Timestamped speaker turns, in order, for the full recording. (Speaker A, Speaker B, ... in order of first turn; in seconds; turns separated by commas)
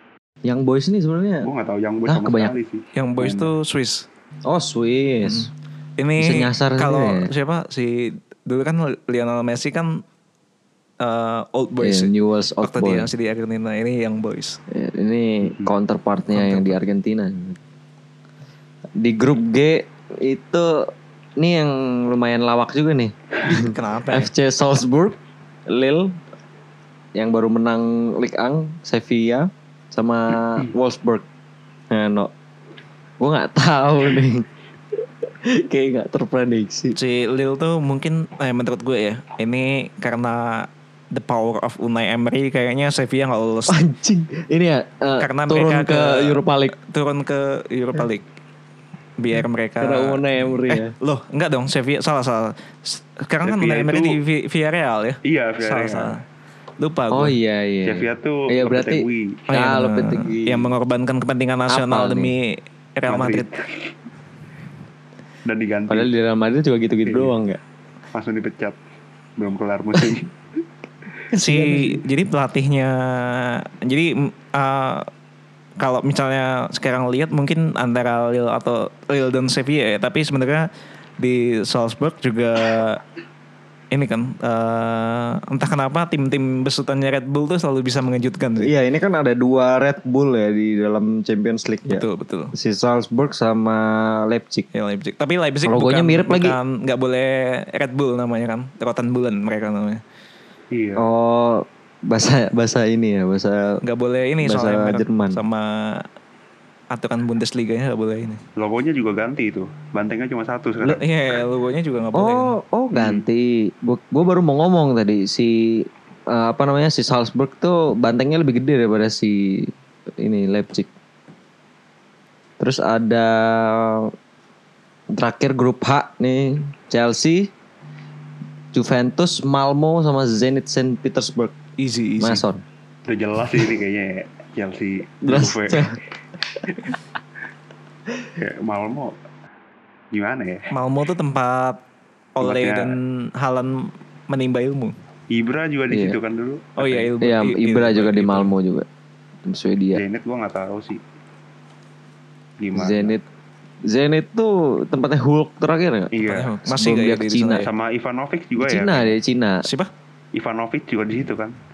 Speaker A: 0.5-1.5, Speaker B: 1.4-3.5, Speaker A: 2.0-2.5, Speaker C: 3.0-4.1, Speaker A: 4.5-5.5, Speaker C: 5.2-10.0, Speaker A: 6.2-7.3, Speaker C: 11.0-12.1, Speaker A: 11.8-13.1, Speaker C: 12.6-14.6, Speaker A: 14.7-17.6, Speaker C: 16.3-16.8, Speaker A: 19.0-25.1, Speaker C: 23.5-24.3, Speaker A: 25.7-26.2, Speaker A: 27.1-31.2, Speaker A: 31.9-32.3, Speaker A: 33.2-34.5, Speaker A: 35.4-37.0, Speaker C: 37.0-43.8, Speaker A: 43.7-46.7, Speaker C: 45.2-48.2, Speaker C: 49.2-56.2, Speaker A: 49.8-50.9, Speaker B: 53.4-54.2, Speaker B: 55.2-56.1, Speaker C: 56.8-57.4, Speaker A: 57.1-60.7, Speaker B: 57.8-59.5, Speaker C: 59.5-63.5, Speaker A: 61.7-62.3, Speaker B: 63.1-63.9, Speaker B: 65.5-66.1, Speaker A: 65.9-67.6, Speaker B: 67.0-67.3, Speaker B: 68.1-68.8, Speaker B: 69.4-70.3, Speaker A: 71.3-72.0, Speaker C: 71.3-75.1, Speaker C: 75.8-80.7, Speaker C: 81.2-83.0, Speaker C: 83.9-88.7, Speaker A: 88.6-94.7, Speaker C: 91.9-92.5, Speaker C: 94.7-100.0, Speaker A: 95.7-96.6, Speaker B: 100.7-101.0, Speaker A: 101.0-103.8, Speaker C: 103.8-106.0, Speaker A: 104.4-105.4, Speaker C: 106.9-108.4, Speaker B: 108.6-111.1, Speaker C: 110.8-112.5, Speaker A: 112.1-120.9, Speaker B: 112.9-113.2, Speaker A: 122.6-124.1, Speaker A: 125.1-127.5, Speaker A: 128.7-131.5, Speaker C: 131.8-132.4, Speaker A: 132.2-132.6, Speaker B: 133.1-135.9, Speaker A: 135.2-135.9, Speaker B: 138.3-139.2, Speaker B: 140.1-140.7, Speaker C: 140.7-141.8, Speaker C: 142.4-144.9, Speaker B: 142.4-143.0, Speaker B: 145.3-147.1, Speaker A: 145.9-146.2, Speaker C: 146.8-148.5, Speaker A: 147.2-148.9, Speaker A: 149.4-150.0, Speaker B: 149.9-151.0, Speaker B: 152.6-153.1, Speaker A: 152.7-153.2, Speaker A: 153.9-156.1, Speaker B: 156.1-156.6, Speaker C: 156.2-157.7, Speaker A: 156.6-157.7, Speaker B: 157.6-159.2, Speaker A: 158.6-159.7, Speaker C: 159.6-159.9, Speaker B: 160.3-161.6